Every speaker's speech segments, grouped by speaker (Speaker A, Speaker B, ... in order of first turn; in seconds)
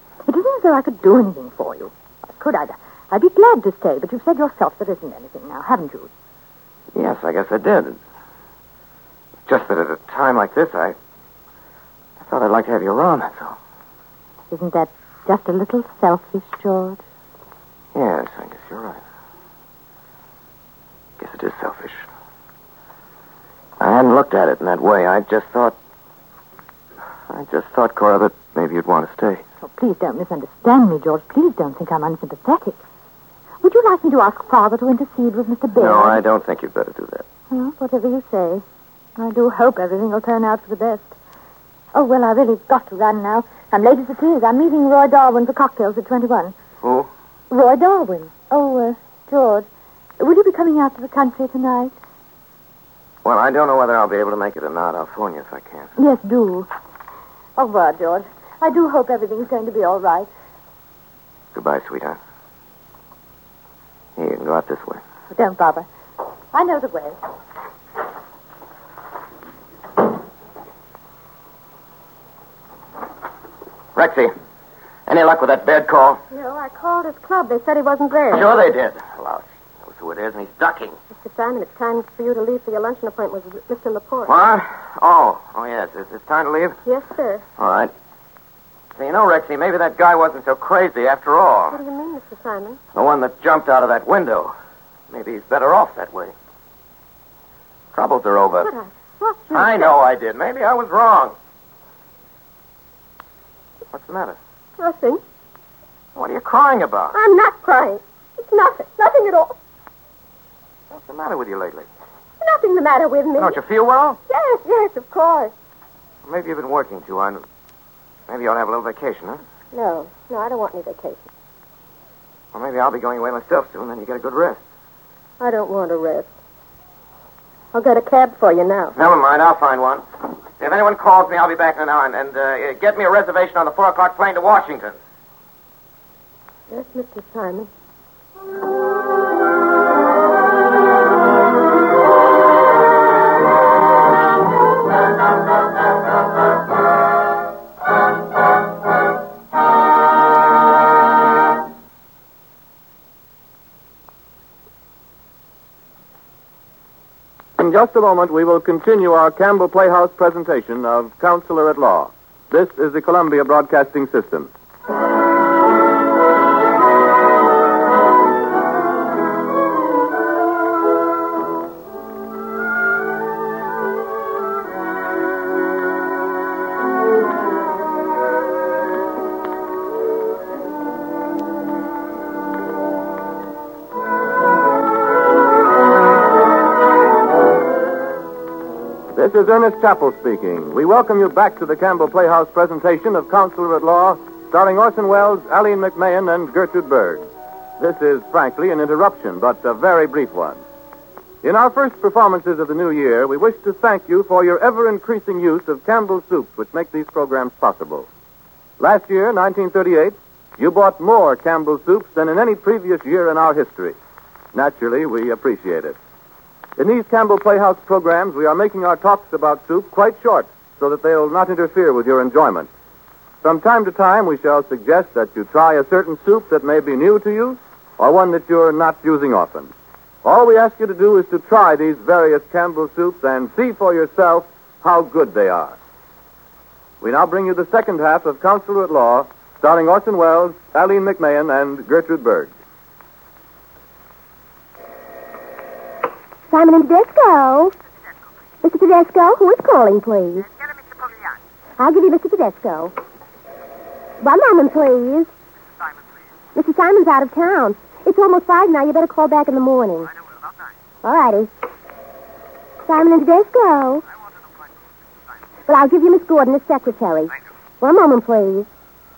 Speaker A: 0.2-6.1, 14.5-17.0, 29.6-32.8, 33.6-36.2, 37.5-38.6, 39.2-41.1, 41.9-46.5, 47.5-49.7, 50.2-52.0, 56.0-56.7, 57.6-60.3, 65.3-65.9, 66.5-67.2
Speaker B: 6.9-8.0, 9.5-11.0, 12.2-13.6, 17.9-19.0, 21.2-22.1, 23.8-25.8, 27.3-29.4, 35.8-37.3, 46.8-47.1, 53.2-55.9, 61.5-62.2, 64.2-65.0, 74.0-74.3, 75.1-76.2, 78.3-81.0, 84.3-86.8, 87.6-87.9, 89.0-91.8, 92.9-94.5, 95.1-96.3, 97.9-98.7, 99.5-101.3, 103.9-104.4, 106.2-107.2, 110.9-111.9, 113.4-114.2, 116.3-117.4, 118.3-119.4, 122.5-124.6, 129.0-130.0, 130.6-135.0
Speaker C: 76.3-78.5, 81.2-84.3, 86.9-87.4, 91.7-92.8, 98.6-99.9, 104.8-105.2, 107.1-109.5, 112.4-113.6, 114.3-115.5, 119.7-121.3, 125.4-126.3, 127.7-128.9, 136.7-137.7
Speaker D: 157.6-164.5, 189.2-197.3, 197.8-200.6, 201.4-208.1, 208.8-214.0, 214.5-216.0, 216.8-222.7, 223.4-229.7, 230.2-235.8, 237.0-242.5
Speaker E: 246.5-247.6, 251.8-252.8, 254.2-255.3, 256.6-257.3, 261.0-261.5, 262.9-263.5, 265.7-267.3